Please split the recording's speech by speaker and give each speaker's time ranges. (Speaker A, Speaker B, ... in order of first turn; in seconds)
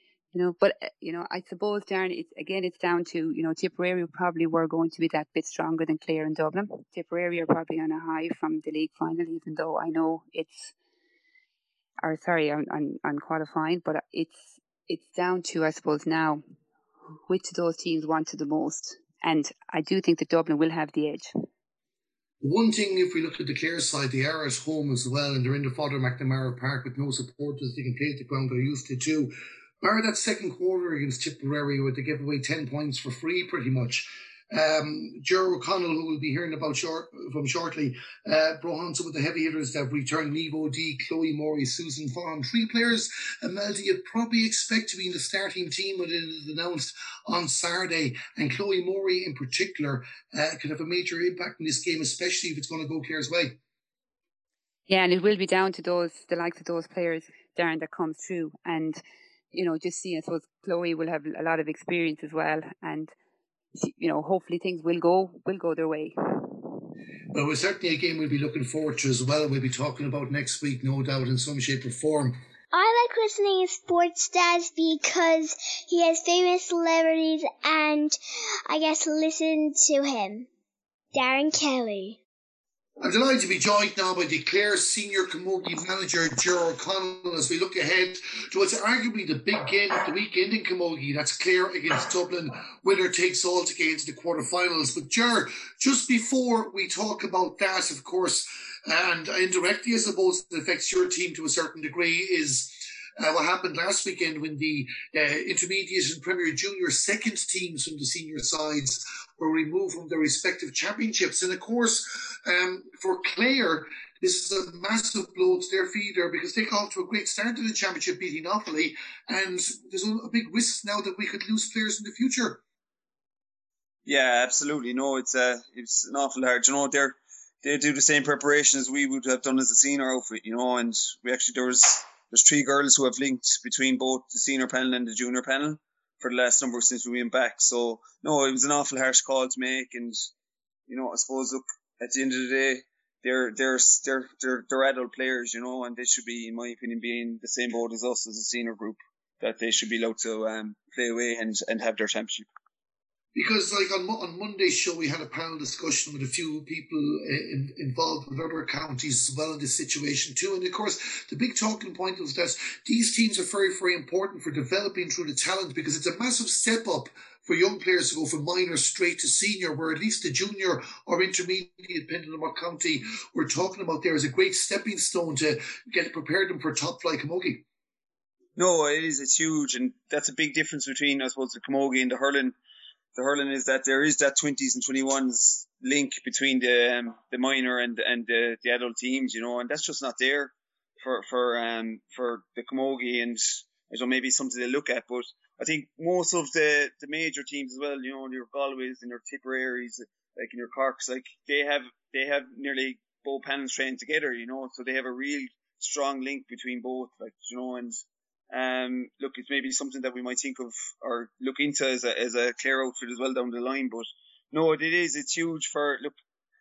Speaker A: 0.3-10.7, 12.0-16.4, 17.3-21.3, 54.9-63.1, 63.8-66.9
Speaker B: 22.4-53.6, 67.3-72.4, 83.0-122.6, 153.3-177.6
Speaker C: 72.7-80.5, 81.1-82.2
Speaker D: 124.1-140.3, 140.9-152.5, 178.6-182.6, 183.2-216.1